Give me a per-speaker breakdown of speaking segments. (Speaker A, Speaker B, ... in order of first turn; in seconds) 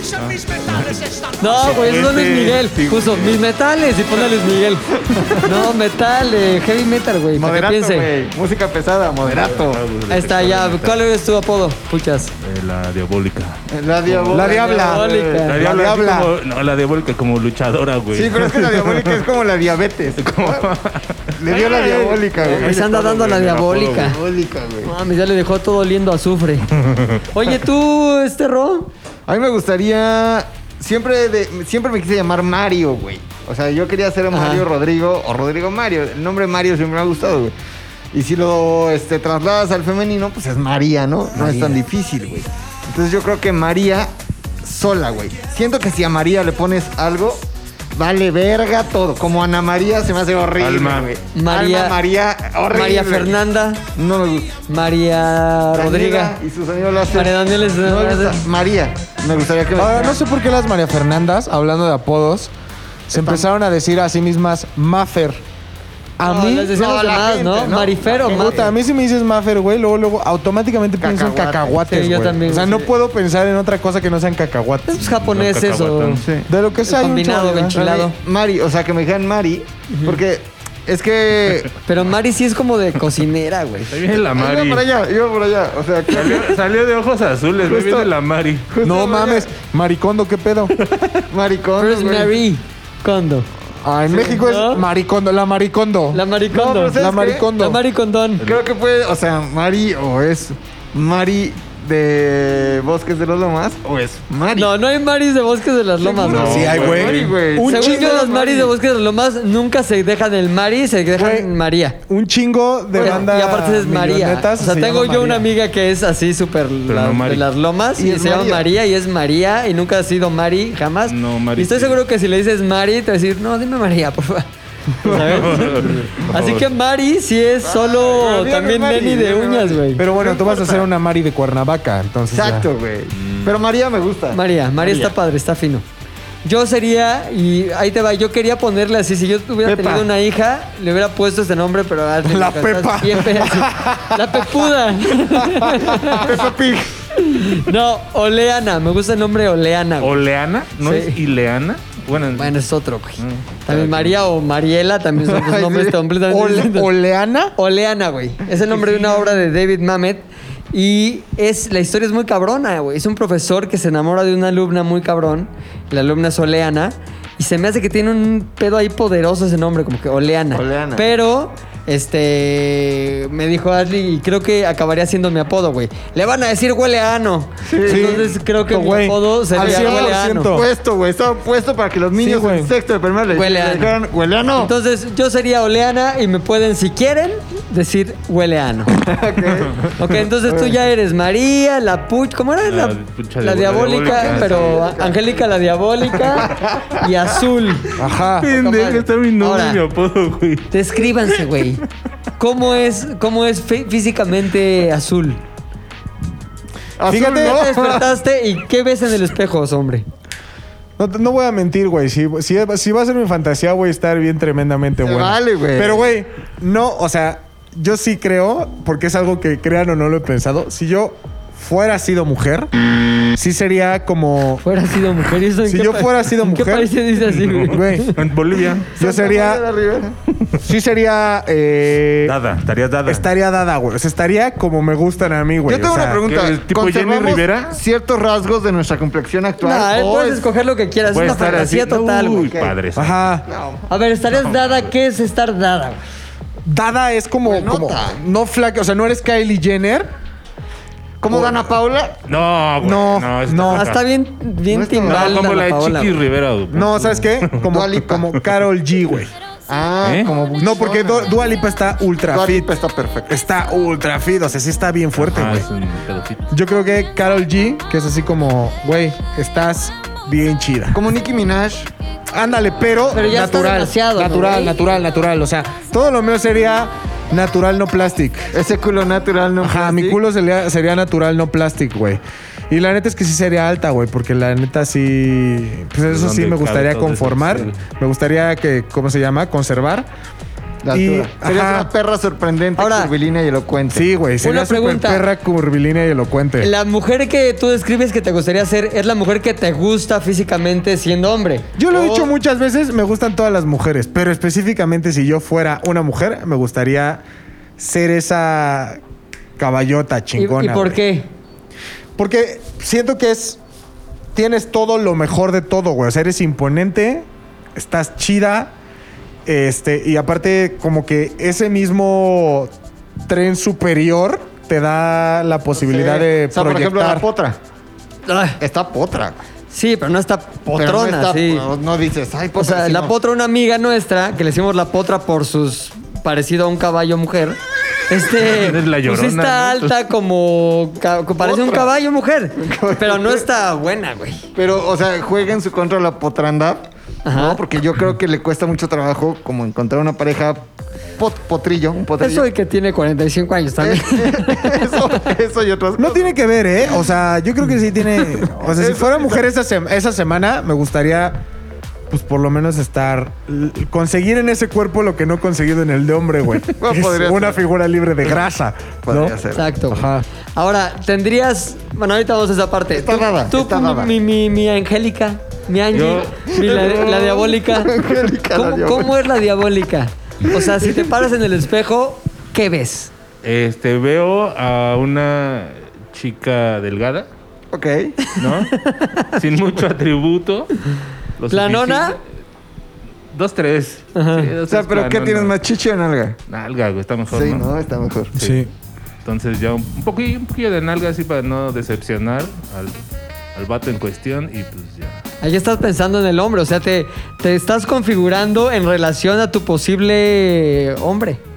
Speaker A: 0.1-3.4, 9.2-11.0, 12.4-14.5, 15.4-19.2, 20.2-24.1, 26.8-27.2, 50.6-51.1, 75.0-76.2, 83.9-84.8, 86.1-88.7, 90.8-91.2, 106.2-107.4, 116.9-117.4, 121.1-122.0, 125.1-126.7, 133.1-133.6, 150.0-152.6, 153.2-154.2, 192.7-194.8, 198.4-200.7, 227.2-228.9, 232.2-233.3, 236.2-237.8, 241.1-243.2, 244.3-244.9, 252.3-254.0, 255.0-257.7, 260.0-260.3, 265.2-266.5, 286.1-287.8, 338.4-340.0, 375.9-377.0, 383.4-387.3, 388.4-390.7, 391.4-392.2, 393.3-395.6, 396.5-397.7, 398.3-398.7, 399.2-403.0, 403.5-405.2
Speaker B: 1.4-4.8, 5.4-8.1, 10.1-12.3, 14.6-15.6, 22.4-24.2, 24.8-26.7, 27.3-28.9, 34.3-34.6, 41.4-41.8, 51.3-52.0, 52.7-53.8, 54.7-56.4, 57.1-58.4, 66.2-68.7, 71.9-72.9, 74.9-76.2, 76.8-78.1, 79.9-80.2, 81.8-84.0, 91.8-93.5, 94.1-94.8, 96.1-97.0, 97.5-98.4, 104.5-106.7, 107.6-112.0, 112.9-124.5, 125.0-130.0, 134.3-135.8, 136.4-146.3, 147.1-150.1, 150.8-151.2, 152.3-156.9, 157.6-180.6, 183.3-183.9, 184.6-188.9, 189.9-197.9, 198.5-199.8, 200.7-201.8, 202.4-205.4, 207.3-210.1, 224.6-228.1, 239.6-242.5, 243.9-246.0, 253.6-256.2, 273.1-274.7, 292.8-293.1, 294.4-295.2, 296.6-302.3, 310.4-311.3, 328.3-328.6, 329.7-331.6, 332.6-337.6, 338.1-344.5, 347.2-347.6, 352.2-355.0, 369.5-377.9, 378.5-383.1, 388.7-389.3, 391.5-392.2, 394.1-394.5, 405.4-411.4
Speaker C: 5.0-5.6, 7.3-9.8, 13.7-15.5, 18.1-20.7, 21.4-22.9, 23.9-24.9, 29.3-37.5, 38.1-44.1, 44.6-47.4, 47.9-53.4, 54.0-54.6, 55.7-60.2, 63.1-63.5, 66.7-68.7, 71.0-71.8, 76.1-76.5, 77.7-81.8, 84.3-86.6, 87.6-88.1, 88.7-89.5, 91.3-92.3, 96.5-97.5, 98.4-104.7, 106.2-108.7, 118.0-118.7, 125.0-126.3, 127.6-130.9, 132.3-134.4, 139.7-140.0, 146.1-147.0, 155.2-156.0, 158.7-159.2, 170.5-171.1, 177.6-178.3, 179.6-184.7, 188.9-190.8, 193.8-195.4, 196.2-197.1, 207.0-208.1, 215.0-216.1, 228.9-230.2, 235.7-240.5, 241.2-241.6, 242.5-242.8, 243.4-243.9, 247.4-248.2, 251.2-252.2, 254.7-255.5, 257.7-258.4, 259.7-261.4, 262.3-263.4, 270.9-271.9, 278.5-280.2, 290.8-294.1, 325.7-327.6, 328.6-329.4, 330.7-333.1, 341.4-341.9, 342.6-343.5, 344.6-352.5, 353.8-356.4, 358.6-359.4, 366.8-367.6, 369.1-369.6, 372.9-374.1, 376.5-379.1, 380.5-381.1, 387.7-388.1, 394.7-396.4, 397.3-398.3
Speaker D: 14.3-16.3, 59.7-62.5, 63.1-65.4, 66.2-66.7, 68.3-74.9, 76.5-77.8, 88.8-90.7, 93.8-96.2, 96.9-97.8, 106.3-108.3, 111.2-111.5, 112.1-115.5, 130.0-132.7, 142.2-146.2, 156.3-157.5, 177.8-180.7, 182.1-182.7, 197.9-198.5, 207.1-207.7, 211.0-222.7, 223.3-224.6, 225.6-226.9, 227.6-228.2, 229.0-229.6, 230.6-232.4, 233.0-236.2, 242.9-243.4, 246.6-250.1, 251.3-251.7, 252.8-253.9, 256.7-259.3, 260.6-262.7, 263.3-265.7, 266.5-271.0, 272.3-278.5, 279.6-290.1, 290.9-291.9, 293.9-296.7, 301.8-307.2, 307.8-309.0, 309.6-311.0, 312.2-313.6, 314.3-318.7, 319.4-322.7, 323.3-327.3, 356.0-361.4, 362.1-369.4, 369.9-370.2, 398.4-398.7